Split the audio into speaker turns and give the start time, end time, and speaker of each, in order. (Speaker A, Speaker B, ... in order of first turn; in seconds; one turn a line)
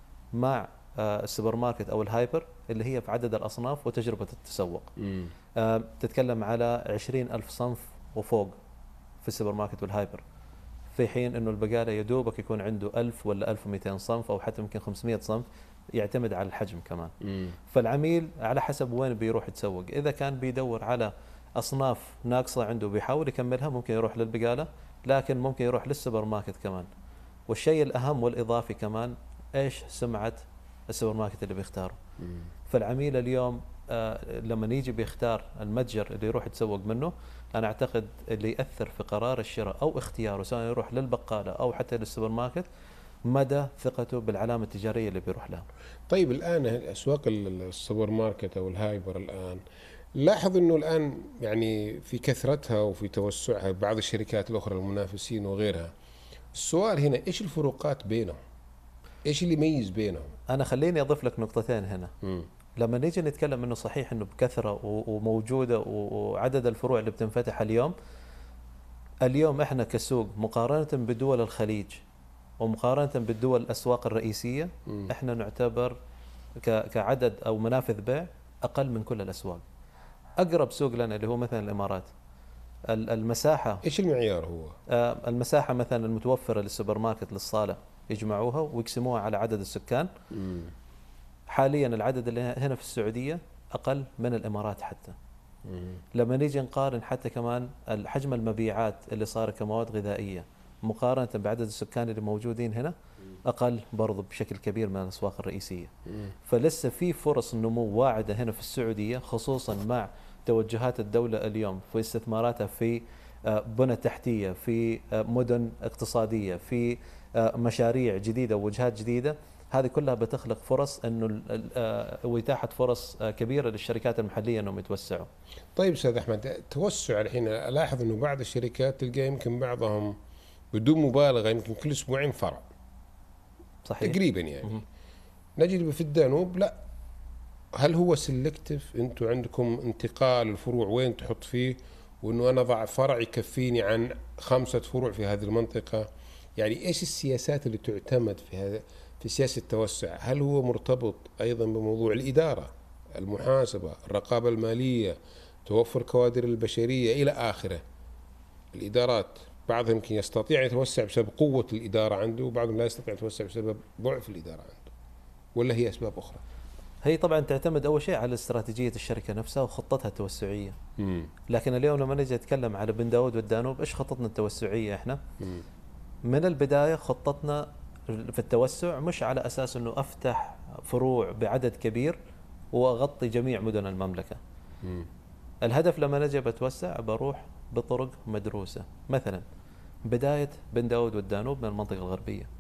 Speaker A: 0.3-4.9
Speaker B: 5.0-5.3
Speaker A: 5.6-8.6
Speaker A: 9.2-10.2
Speaker A: 10.9-17.1
Speaker B: 17.2-17.6
Speaker A: 17.7-26.9
Speaker A: 27.5-32.0
Speaker A: 32.7-42.7
Speaker A: 43.3-45.7
Speaker B: 46.1-49.6
Speaker B: 50.1-55.9
Speaker B: 56.5-58.4
Speaker B: 59.2-60.3
Speaker A: 60.5-62.1
Speaker B: 62.2-62.5
Speaker A: 62.8-67.9
Speaker A: 69.2-72.0
Speaker A: 72.6-76.0
Speaker A: 76.6-79.7
Speaker A: 80.4-82.1
Speaker A: 82.9-83.8
Speaker B: 83.8-84.8
Speaker A: 84.9-90.1
Speaker B: 90.3-90.7
Speaker A: 91.5-95.2
Speaker B: 95.7-96.0
Speaker A: 96.1-105.9
Speaker A: 106.5-125.3
Speaker B: 125.8-130.2
Speaker B: 130.7-132.7
Speaker A: 133.8-134.8
Speaker B: 134.0-134.8
Speaker B: 135.6-136.8
Speaker B: 137.8-157.8
Speaker B: 158.7-164.9
Speaker B: 165.6-166.4
Speaker A: 167.0-170.8
Speaker B: 171.0-171.3
Speaker A: 171.5-175.2
Speaker A: 176.3-182.2
Speaker A: 182.7-184.4
Speaker B: 184.8-185.1
Speaker A: 185.6-189.4
Speaker A: 190.1-192.5